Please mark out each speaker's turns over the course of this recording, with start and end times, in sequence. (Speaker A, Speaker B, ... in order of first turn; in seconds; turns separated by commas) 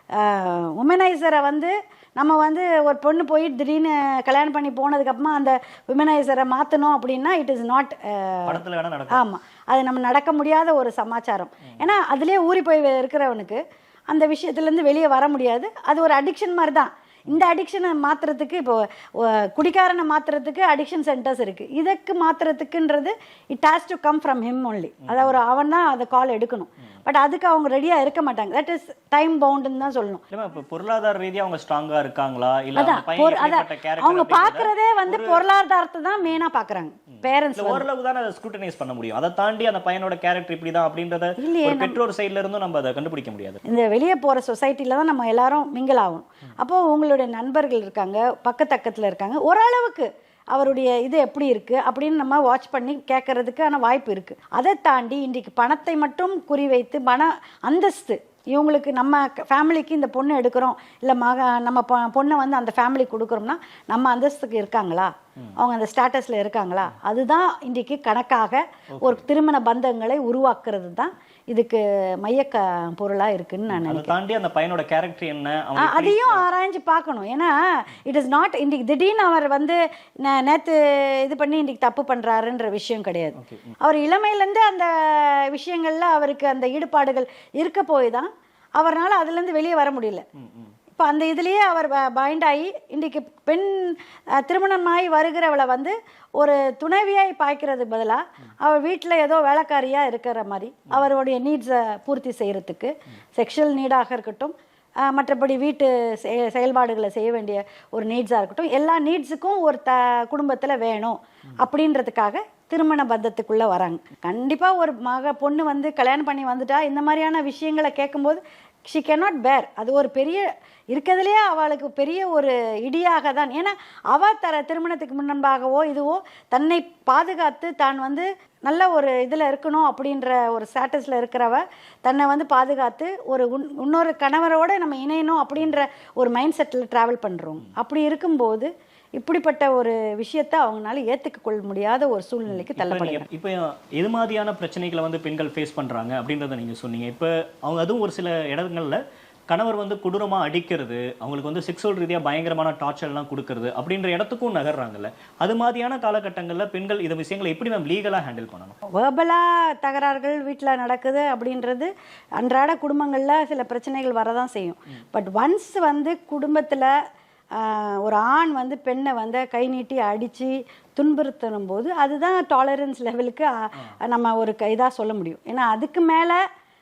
Speaker A: 0.1-8.6, Speaker B: 8.5-9.2, Speaker A: 9.1-30.2, Speaker B: 25.1-25.4, Speaker B: 30.3-35.4, Speaker A: 32.8-37.9, Speaker B: 37.6-43.6, Speaker A: 41.4-42.0, Speaker A: 43.7-74.1, Speaker B: 69.0-69.2, Speaker B: 73.7-76.5, Speaker A: 75.8-90.2, Speaker B: 83.4-83.7, Speaker B: 90.4-90.7, Speaker A: 90.9-143.3, Speaker B: 142.5-158.8, Speaker A: 158.9-166.9, Speaker A: 167.5-176.4